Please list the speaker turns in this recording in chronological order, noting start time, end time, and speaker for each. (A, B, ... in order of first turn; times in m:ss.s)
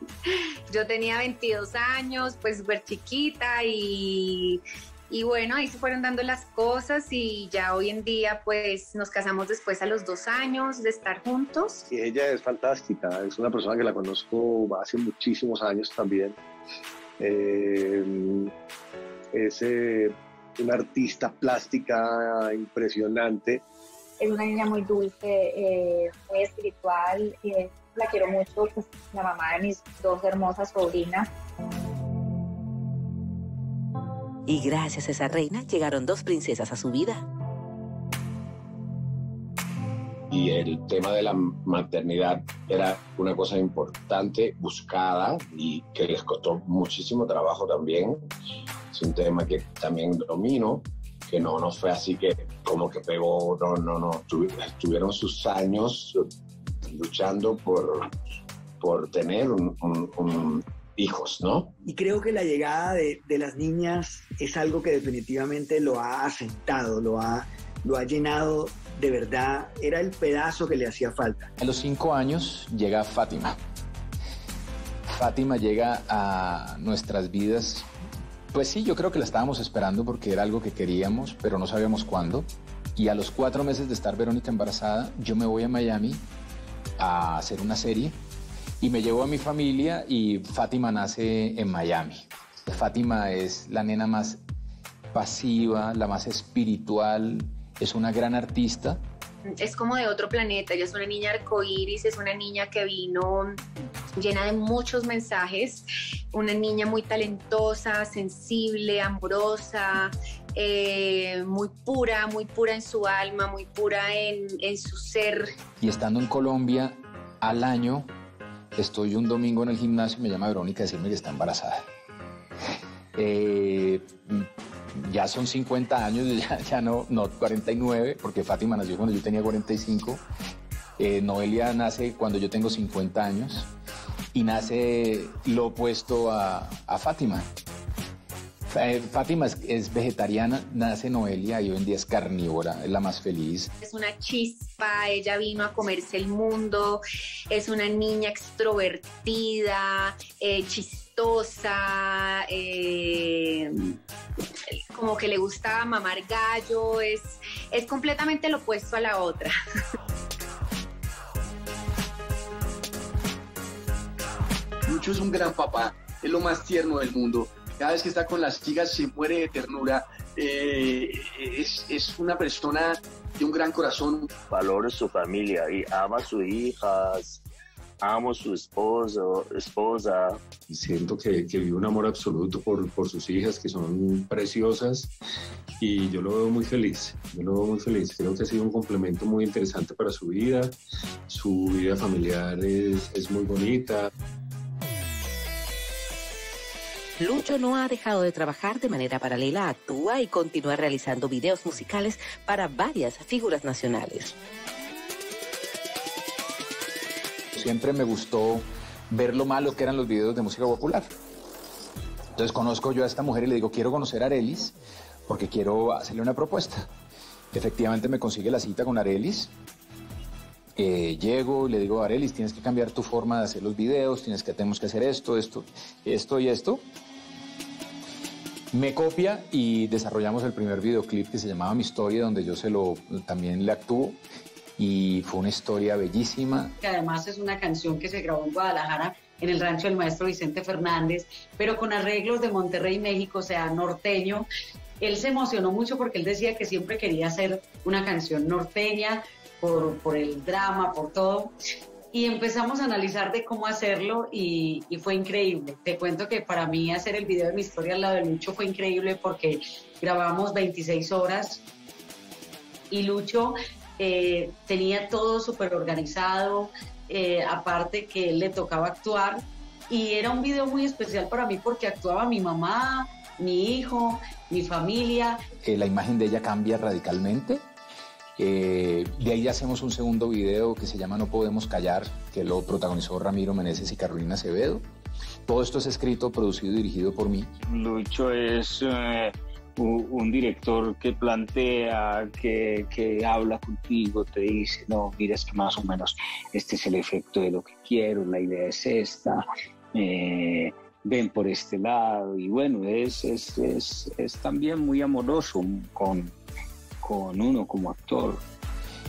0:00.3-0:11.9 A
0:11.9-0:16.4 B
0:17.2-0:18.5 B
0:19.3-0:23.6 B
0:24.2-0:31.3 C
0:34.5-0:37.3 D
0:40.3-0:48.2 E
0:48.9-0:56.2 E
0:56.8-0:58.1 E
0:58.8-1:01.7 E
1:01.8-1:11.5 F
1:11.6-1:13.6 G
1:15.1-1:17.9 G
1:18.5-1:26.2 G
1:27.0-1:28.2 G
1:28.8-1:34.4 G
1:35.1-1:39.0 G
1:39.5-1:43.6 A
1:44.2-1:55.5 A
1:55.8-1:58.1 G
1:58.8-2:01.9 G
2:03.2-2:10.2 G
2:11.0-2:13.7 G
2:14.3-2:17.5 G
2:18.7-2:23.7 G
2:23.8-2:34.0 A
2:34.9-2:39.5 A
2:44.9-2:54.4 H
2:54.4-2:57.4 I
2:58.0-3:00.4 I
3:00.7-3:05.1 J
3:05.8-3:10.8 J
3:11.3-3:14.1 J
3:17.2-3:24.4 D
3:27.5-3:31.1 G
3:32.4-3:34.8 G
3:35.3-3:36.9 G
3:37.5-3:39.5 G
3:40.8-3:46.8 G
3:48.7-3:54.2 G
3:54.8-3:56.8 G
3:56.8-4:04.5 K
4:05.0-4:11.5 K
4:12.1-4:21.6 K
4:22.9-4:35.4 K
4:35.6-4:37.7 G
4:38.4-4:44.9 G
4:45.5-4:47.5 G
4:47.7-5:06.4 L
5:07.0-5:08.4 L